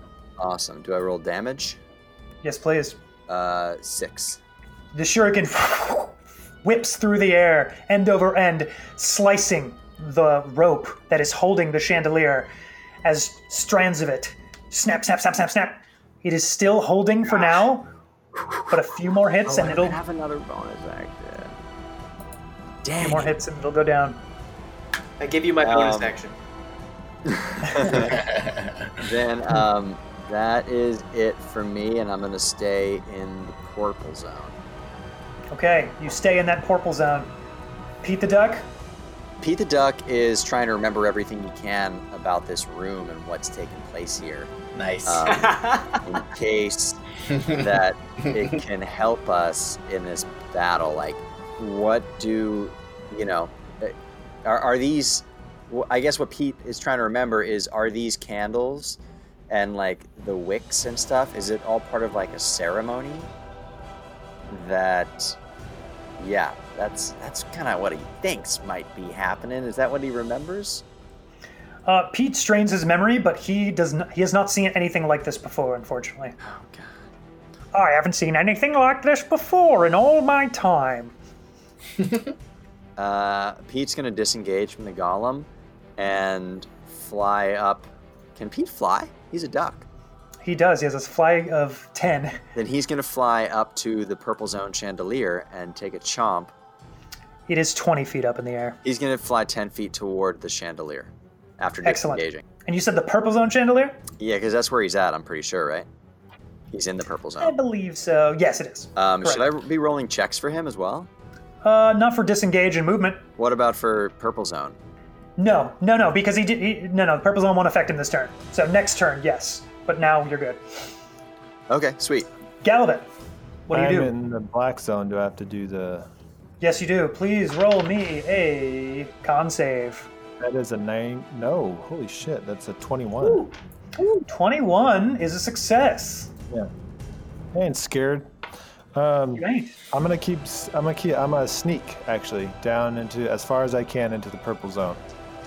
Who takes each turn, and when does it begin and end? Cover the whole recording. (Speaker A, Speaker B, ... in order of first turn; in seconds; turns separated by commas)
Speaker A: 0.4-1.8, Speaker B: 2.4-3.0, Speaker A: 3.3-4.4, Speaker B: 4.9-12.5, Speaker B: 13.0-17.9, Speaker B: 18.7-20.0, Speaker A: 19.4-21.6, Speaker A: 22.8-23.3, Speaker B: 23.0-24.2, Speaker C: 25.2-26.3, Speaker A: 25.6-26.1, Speaker A: 27.3-28.2, Speaker D: 27.9-28.9, Speaker A: 29.0-34.5, Speaker B: 35.5-37.3, Speaker B: 38.0-38.6, Speaker A: 39.4-44.5, Speaker D: 44.7-45.4, Speaker A: 45.0-47.0, Speaker C: 45.3-46.0, Speaker D: 47.3-47.7, Speaker A: 47.5-59.0, Speaker A: 59.5-63.3, Speaker A: 64.5-65.4, Speaker A: 66.2-70.8, Speaker B: 71.8-76.4, Speaker A: 76.4-77.0, Speaker B: 77.7-81.1, Speaker D: 82.0-82.3, Speaker A: 83.0-89.8, Speaker B: 90.4-92.4, Speaker A: 92.5-96.5, Speaker B: 97.5-98.8, Speaker A: 98.8-102.4, Speaker B: 101.8-104.0, Speaker A: 104.2-105.9, Speaker A: 106.7-107.5, Speaker B: 107.4-109.5, Speaker A: 109.0-111.1, Speaker B: 111.6-113.2, Speaker A: 113.4-114.8, Speaker B: 115.4-120.6, Speaker A: 121.7-122.3, Speaker B: 122.6-123.0, Speaker B: 123.7-124.1, Speaker E: 123.7-126.1, Speaker B: 126.6-130.1, Speaker E: 130.4-133.5, Speaker C: 133.2-133.5, Speaker B: 134.0-136.3, Speaker E: 137.5-138.3, Speaker E: 138.9-145.0, Speaker B: 139.3-139.8